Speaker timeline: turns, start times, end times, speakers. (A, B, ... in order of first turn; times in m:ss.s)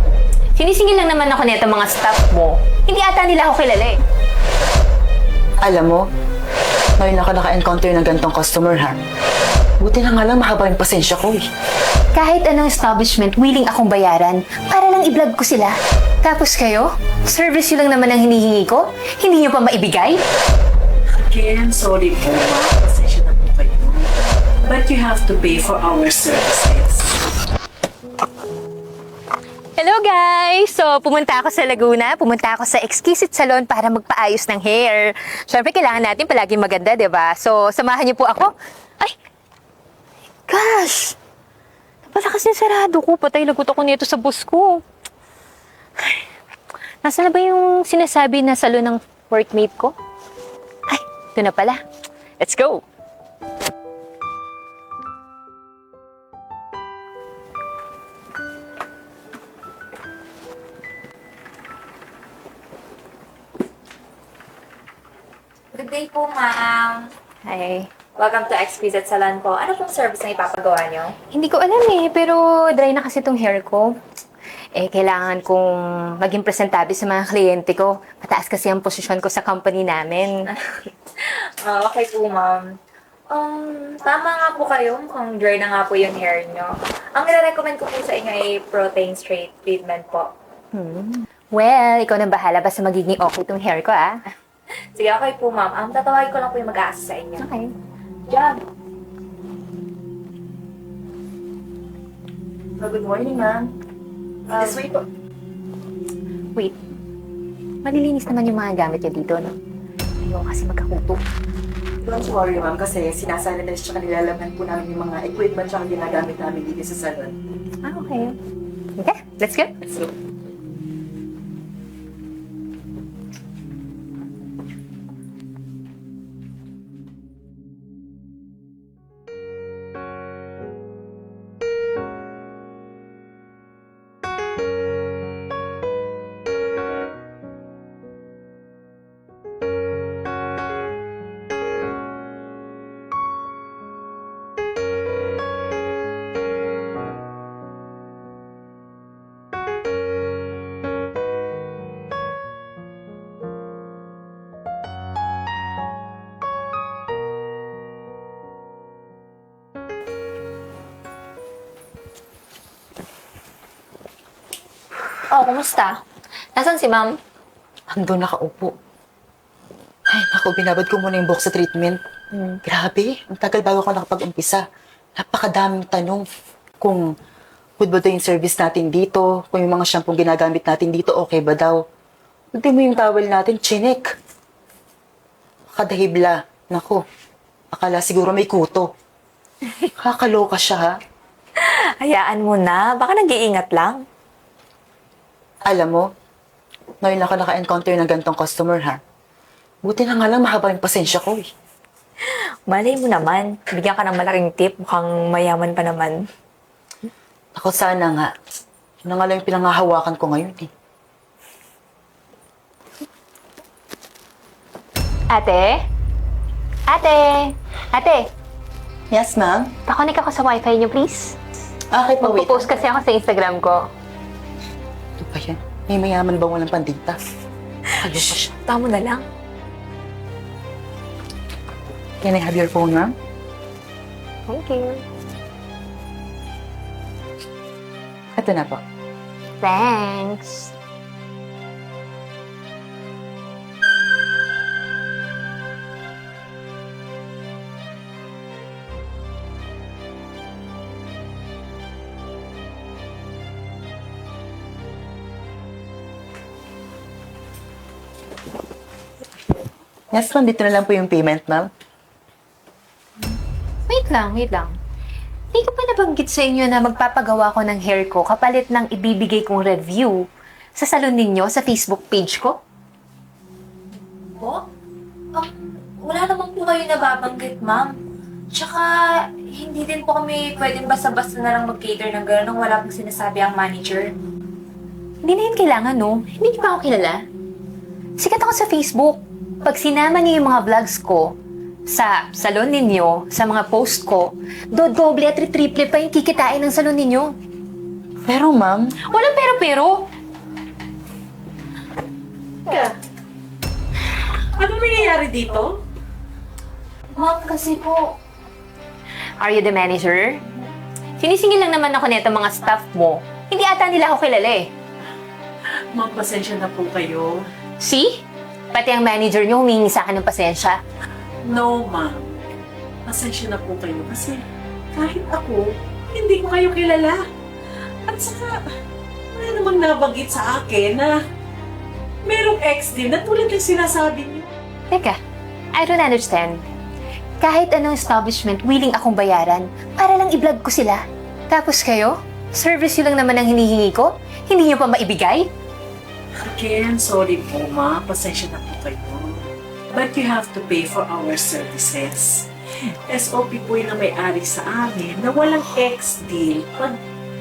0:00.6-0:04.0 A
0:05.6-0:06.0 B
0:07.0-0:09.0 B
0:09.8-0:11.4 B
0:12.2-0:20.2 A
0:21.2-0:24.1 C
0:24.7-0:27.1 C
0:29.8-0:39.2 A
0:40.5-0:41.2 A
0:42.1-0:44.8 A
0:47.0-0:50.0 A
0:50.9-0:51.8 A
0:52.4-0:52.8 A
1:05.7-1:07.1 D
1:07.5-1:07.9 A
1:08.2-1:11.2 D
1:11.3-1:14.0 A
1:14.8-1:20.4 A
1:21.1-1:22.7 D
1:23.3-1:30.3 D
1:30.7-1:34.2 A
1:35.0-1:37.5 D
1:37.4-1:37.7 A
1:38.3-1:38.6 D
1:42.8-1:43.7 B
1:44.5-1:45.0 B
1:47.8-1:49.5 A
1:50.2-1:51.2 A
1:52.0-1:57.3 B
1:57.8-1:58.4 A
1:59.0-1:59.8 A
2:45.3-2:46.0 D
2:46.6-2:47.2 D
2:47.9-2:48.7 B
2:50.1-2:52.0 B
2:52.6-2:54.6 B
2:55.2-2:56.2 B
2:56.8-2:57.1 B
2:57.8-3:01.8 B
3:02.5-3:04.0 B
3:05.7-3:07.0 B
3:07.7-3:08.9 B
3:10.0-3:11.0 B
3:11.6-3:14.0 D
3:15.6-3:16.1 B
3:17.0-3:19.0 B
3:19.8-3:21.5 B
3:22.7-3:24.0 D
3:27.6-3:28.3 B
3:29.0-3:30.7 B
3:35.3-3:35.8 A
3:36.9-3:38.3 A
3:39.1-3:39.7 B
3:39.9-3:41.4 A
3:41.9-3:42.7 B
3:42.2-3:43.9 A
3:45.2-3:47.2 B
3:48.0-3:48.5 B
3:48.5-3:49.2 D
3:52.2-3:53.1 B
3:54.5-3:55.0 A
3:58.4-3:58.8 B
3:59.6-4:00.7 A
4:20.1-4:21.7 B
4:23.9-4:24.8 A
4:25.5-4:30.2 A
4:30.8-4:32.6 A
4:34.4-4:34.6 D
4:35.4-4:38.0 D
4:38.5-4:44.2 D
4:45.2-4:47.2 A
4:48.2-4:57.4 A
4:58.3-4:59.0 B
4:59.0-5:00.1 A
5:02.7-5:03.0 C
5:04.6-5:05.8 C
5:07.2-5:08.2 D
5:09.4-5:10.5 A
5:11.2-5:14.7 A
5:15.9-5:17.5 C
5:17.8-5:20.8 A
5:21.4-5:22.4 C
5:23.1-5:27.2 C
5:28.0-5:28.7 C
5:29.3-5:31.2 C
5:32.2-5:34.5 C
5:34.9-5:35.2 A
5:35.7-5:36.6 A
5:37.4-5:45.5 A
5:46.4-5:57.0 C